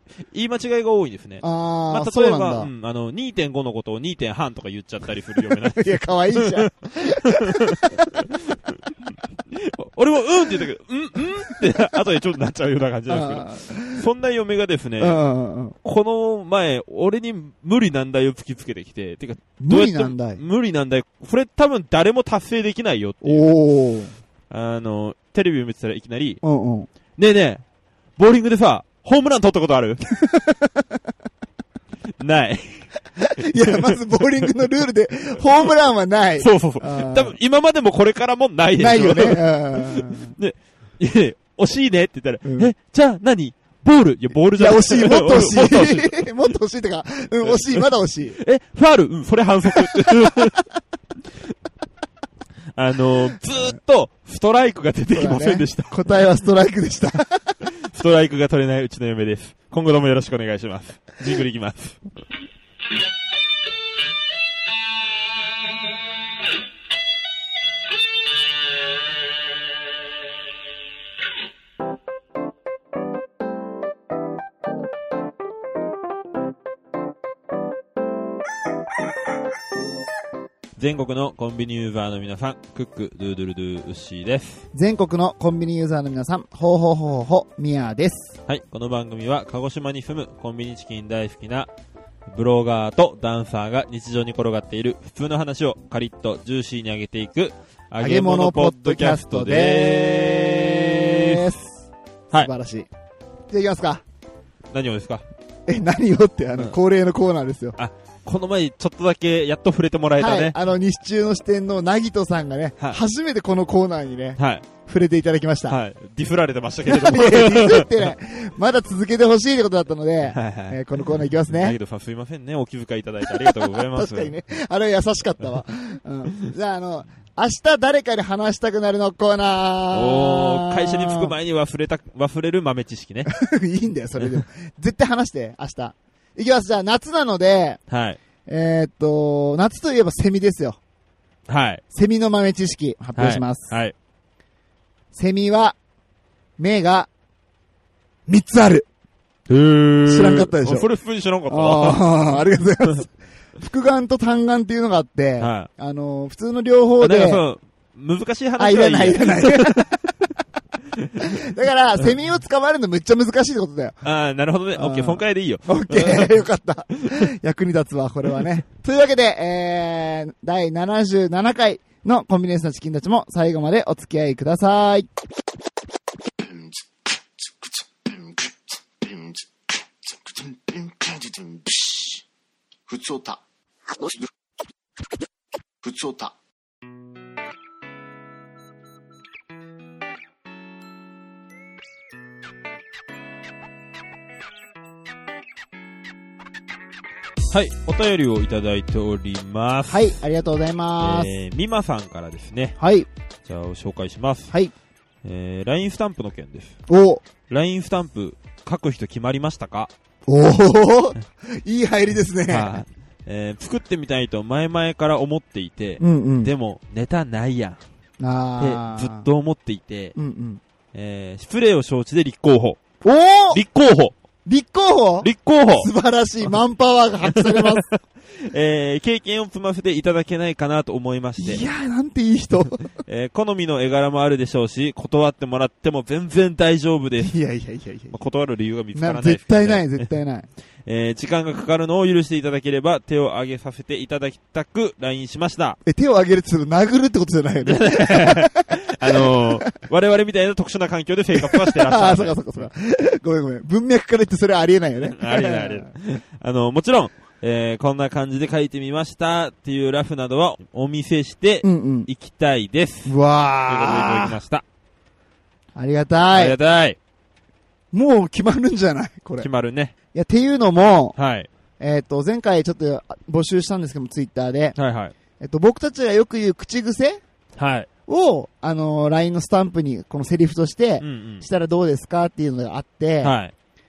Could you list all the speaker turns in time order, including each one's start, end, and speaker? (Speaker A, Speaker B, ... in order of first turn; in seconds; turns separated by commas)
Speaker A: 0.3-8.2, Speaker B: 1.4-2.7, Speaker B: 5.4-8.0, Speaker A: 9.5-15.2, Speaker B: 13.1-14.0, Speaker B: 15.0-15.8, Speaker A: 15.8-23.5, Speaker B: 19.6-20.4, Speaker B: 23.2-24.1, Speaker A: 24.5-26.4, Speaker B: 26.4-26.9, Speaker A: 27.2-27.6, Speaker A: 28.2-30.0, Speaker B: 30.2-30.8, Speaker A: 32.2-34.5, Speaker B: 33.2-37.4, Speaker A: 36.4-46.2, Speaker B: 38.8-40.4, Speaker B: 42.4-42.7, Speaker B: 44.5-48.4, Speaker A: 47.4-50.6, Speaker B: 49.7-50.5, Speaker A: 52.7-56.0, Speaker B: 55.1-57.5, Speaker A: 57.6-62.0, Speaker A: 80.8-84.7, Speaker B: 84.7-88.4, Speaker A: 88.5-91.7, Speaker A: 92.3-101.4, Speaker B: 98.0-102.9, Speaker B: 103.5-104.0, Speaker A: 104.7-105.2, Speaker B: 105.7-107.8, Speaker A: 107.8-110.5, Speaker B: 110.2-115.8, Speaker A: 114.4-114.7, Speaker A: 115.7-117.9, Speaker B: 116.8-121.8, Speaker A: 120.2-120.8, Speaker A: 121.5-124.3, Speaker B: 123.4-131.3, Speaker A: 129.9-133.3, Speaker B: 133.3-137.8, Speaker A: 134.2-134.4, Speaker A: 137.9-138.2, Speaker B: 138.4-140.8, Speaker A: 141.5-141.8, Speaker B: 141.9-143.7, Speaker A: 143.2-143.9, Speaker B: 145.1-145.8, Speaker B: 146.6-147.1, Speaker B: 148.3-148.8, Speaker A: 149.5-152.1, Speaker B: 150.1-150.9, Speaker B: 151.5-157.4, Speaker A: 155.4-155.7, Speaker A: 157.0-159.9, Speaker B: 158.6-159.9, Speaker B: 161.2-164.0, Speaker A: 164.0-166.4, Speaker B: 164.7-175.1, Speaker C: 176.4-179.5, Speaker C: 180.1-182.2, Speaker C: 182.9-183.4, Speaker C: 185.8-186.3, Speaker A: 197.5-200.2, Speaker B: 199.9-201.3, Speaker A: 201.0-202.8, Speaker B: 202.8-203.1, Speaker A: 203.4-204.5, Speaker A: 205.2-206.8, Speaker B: 206.9-207.2, Speaker A: 207.5-209.9, Speaker B: 210.3-212.8, Speaker A: 212.5-217.8, Speaker B: 216.0-216.5, Speaker B: 218.2-219.2, Speaker A: 218.6-220.2, Speaker B: 220.1-220.6, Speaker A: 220.9-222.8, Speaker B: 223.0-223.6, Speaker A: 223.5-224.2, Speaker B: 224.4-227.9, Speaker A: 225.2-225.9, Speaker A: 227.3-227.8, Speaker A: 228.5-231.7, Speaker B: 231.4-232.8, Speaker A: 233.0-237.3, Speaker B: 237.2-238.2, Speaker A: 238.1-240.1, Speaker B: 238.9-240.5, Speaker A: 240.8-245.8, Speaker B: 245.8-249.6, Speaker A: 247.6-252.7, Speaker B: 251.3-255.9, Speaker A: 255.0-263.1, Speaker B: 261.6-262.1, Speaker B: 263.0-264.4, Speaker A: 263.7-264.6, Speaker B: 265.8-266.6, Speaker A: 266.3-267.0, Speaker B: 267.9-269.5, Speaker A: 269.4-269.9, Speaker B: 270.1-271.1, Speaker A: 271.1-271.5, Speaker B: 271.8-274.8, Speaker A: 274.8-275.1, Speaker B: 275.4-277.2, Speaker A: 277.6-277.9, Speaker B: 278.1-283.3, Speaker A: 281.0-281.4, Speaker A: 283.2-283.5